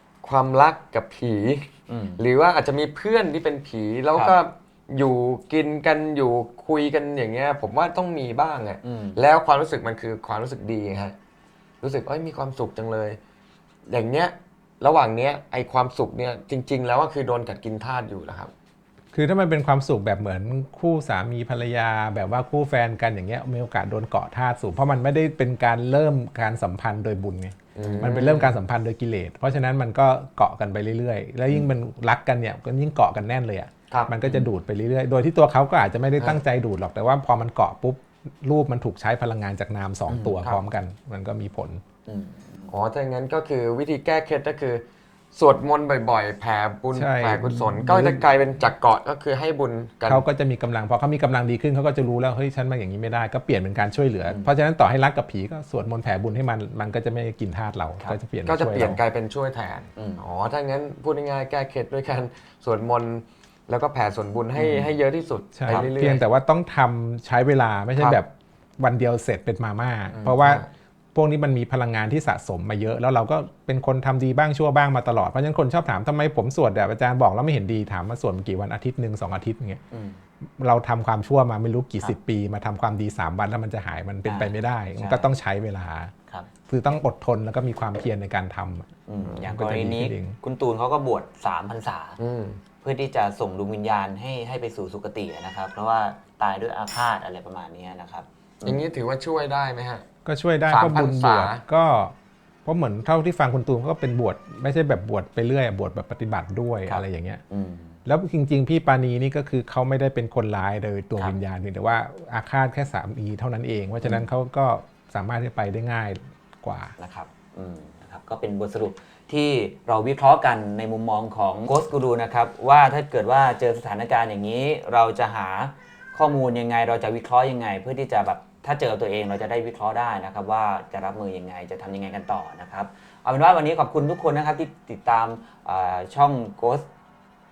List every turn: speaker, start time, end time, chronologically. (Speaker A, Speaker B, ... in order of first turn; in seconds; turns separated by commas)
Speaker A: 0.2-11.2, Speaker B: 1.9-2.2, Speaker B: 8.8-9.2, Speaker A: 11.8-13.2, Speaker A: 13.9-18.5, Speaker C: 19.1-41.8, Speaker A: 27.8-28.5, Speaker B: 27.9-28.4, Speaker B: 40.1-40.4, Speaker B: 42.1-42.7, Speaker A: 42.7-50.2, Speaker C: 46.9-48.2, Speaker C: 50.1-59.0, Speaker A: 58.5-66.2, Speaker B: 60.0-60.2, Speaker B: 64.6-64.9, Speaker C: 65.5-79.8, Speaker B: 70.1-70.4, Speaker A: 70.4-70.7, Speaker B: 79.9-80.2, Speaker C: 80.6-86.1, Speaker B: 84.3-85.3, Speaker C: 86.7-90.4, Speaker B: 89.1-92.2, Speaker A: 92.2-92.6, Speaker B: 92.8-98.8, Speaker A: 98.7-100.1, Speaker C: 100.2-102.1, Speaker A: 100.7-101.6, Speaker C: 102.7-107.4, Speaker B: 106.9-108.0, Speaker C: 108.1-116.9, Speaker B: 114.0-114.3, Speaker B: 117.0-136.9